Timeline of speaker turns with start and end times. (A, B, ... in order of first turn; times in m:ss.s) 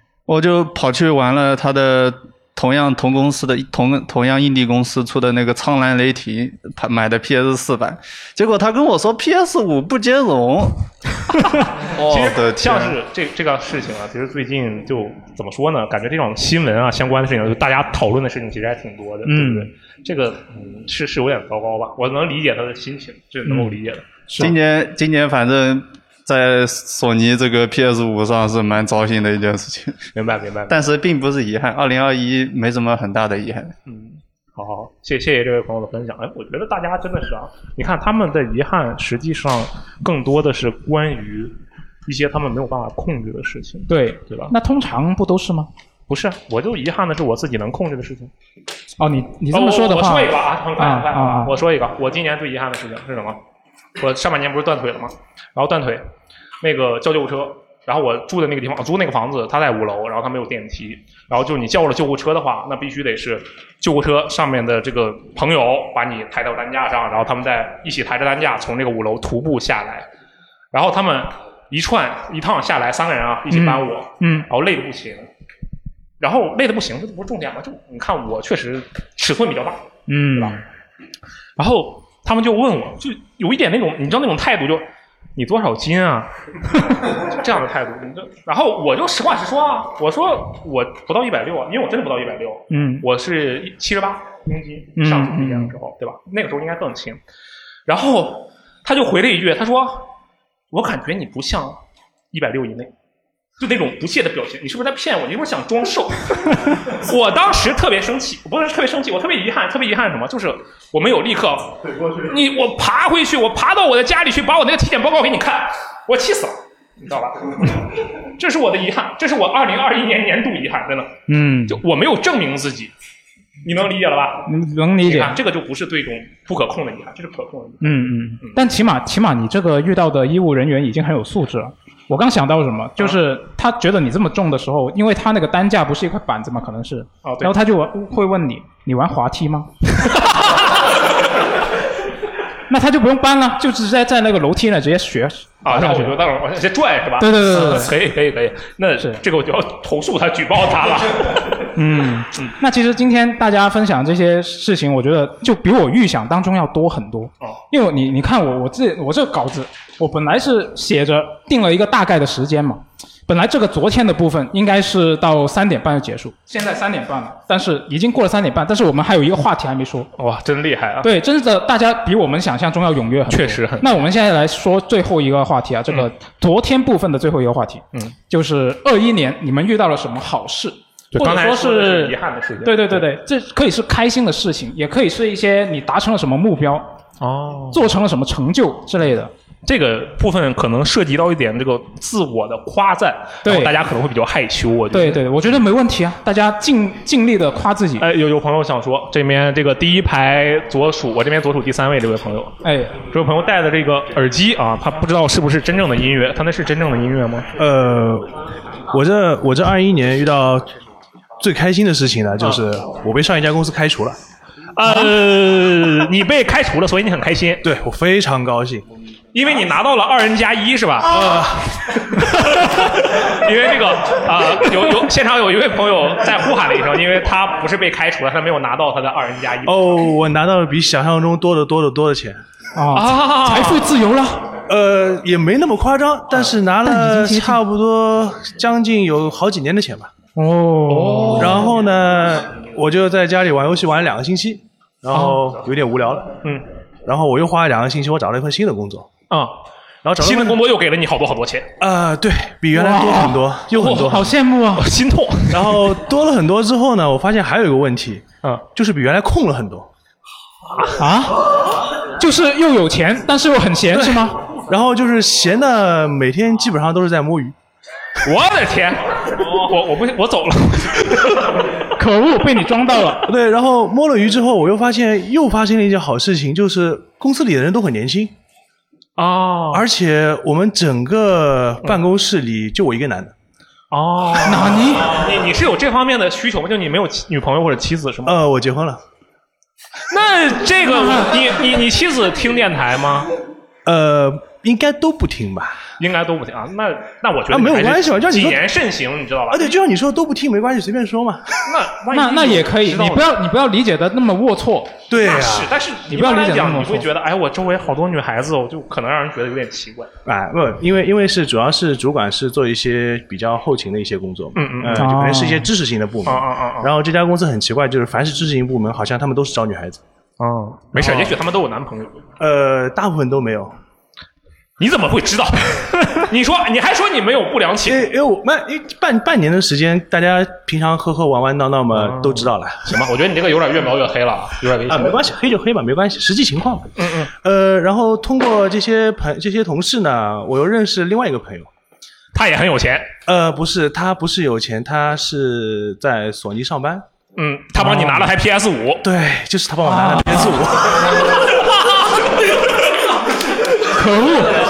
0:00.3-0:10.8 A
0:11.6-0:12.9 A
0:11.9-0:24.5 B
0:19.2-0:19.7 C
0:23.4-0:23.7 C
0:24.4-0:30.0 A
0:30.1-0:30.8 B
0:30.7-0:33.7 A
0:33.9-0:41.5 B
0:42.0-0:44.5 B
0:43.9-0:45.7 C
0:46.1-0:48.3 B
0:49.0-0:51.5 C
0:49.5-0:53.4 B
0:54.0-0:56.0 B
0:56.6-1:10.1 B
1:10.7-1:15.3 B
1:13.5-1:14.4 C
1:16.2-1:19.8 B
1:20.1-1:20.6 C
1:20.3-1:20.6 B
1:21.6-1:24.8 B
1:25.4-1:37.2 B
1:32.7-1:33.0 C
1:35.0-1:35.7 C
1:37.9-1:40.1 B
1:40.7-1:41.8 B
1:42.3-1:42.9 B
1:43.6-2:01.2 B
2:01.3-2:01.8 C
2:01.7-2:02.9 B
2:03.6-2:08.6 B
2:04.5-2:05.4 C
2:07.8-2:20.2 C
2:17.2-2:17.6 B
2:22.7-2:26.2 C
2:25.6-2:31.4 B
2:27.2-2:27.9 C
2:31.8-2:50.1 C
2:50.2-2:51.1 B
2:51.0-3:06.9 C
2:53.3-2:53.9 B
3:01.1-3:03.0 B
3:07.2-3:07.9 B
3:07.7-3:09.3 C
3:09.6-3:15.6 B
3:13.4-3:13.7 C
3:14.9-3:18.0 C
3:18.0-3:22.6 B
3:22.6-3:23.0 C
3:23.1-3:27.5 B
3:27.6-3:28.3 D
3:28.9-3:30.7 D
3:31.4-3:34.2 D
3:34.8-3:37.6 B
3:37.6-3:38.8 D
3:39.3-3:41.4 B
3:41.1-3:42.2 D
3:42.1-3:50.0 B
3:49.6-3:52.4 D
3:52.7-3:54.4 C
3:52.9-3:53.9 B
3:54.7-4:00.1 D
3:56.8-3:57.6 C
4:00.4-4:01.6 C
4:00.9-4:01.8 B
4:01.4-4:06.4 D
4:05.1-4:05.5 B
4:07.0-4:09.1 D
4:09.3-4:09.6 B
4:10.0-4:10.6 D
4:10.2-4:11.7 B
4:11.8-4:14.3 D
4:12.7-4:14.8 C
4:13.7-4:16.0 B
4:15.5-4:19.9 D
4:20.9-4:21.4 C
4:22.2-4:24.4 C
4:24.7-4:27.5 D
4:28.2-4:31.6 B
4:32.0-4:33.3 C
4:33.3-4:38.3 D
4:39.2-4:39.9 B
4:39.7-4:43.3 D
4:43.9-4:48.4 B
4:44.4-4:45.2 C
4:48.2-4:49.0 D
4:50.1-4:53.3 B
4:50.8-4:51.3 C
4:53.8-4:55.8 D
4:56.0-4:59.8 B
4:57.5-4:58.6 D
4:59.5-5:01.5 D
5:01.6-5:03.3 B
5:02.1-5:04.9 C
5:05.1-5:05.7 D
5:05.1-5:10.1 B
5:06.1-5:07.0 C
5:10.2-5:20.0 D
5:14.5-5:15.1 B
5:14.9-5:15.7 C
5:16.2-5:16.9 B
5:20.4-5:22.2 B
5:20.9-5:21.4 D
5:22.4-5:23.7 D
5:24.8-5:28.2 B
5:27.8-5:33.0 D
5:31.9-5:35.2 B
5:34.9-5:36.9 D
5:37.0-5:37.3 B
5:37.4-5:41.7 D
5:42.3-5:43.1 B
5:43.3-5:47.0 D
5:47.4-5:49.0 B
5:47.8-5:48.2 C
5:47.8-5:48.2 D
5:49.0-5:51.2 D
5:49.8-5:50.6 C
5:53.9-5:54.6 C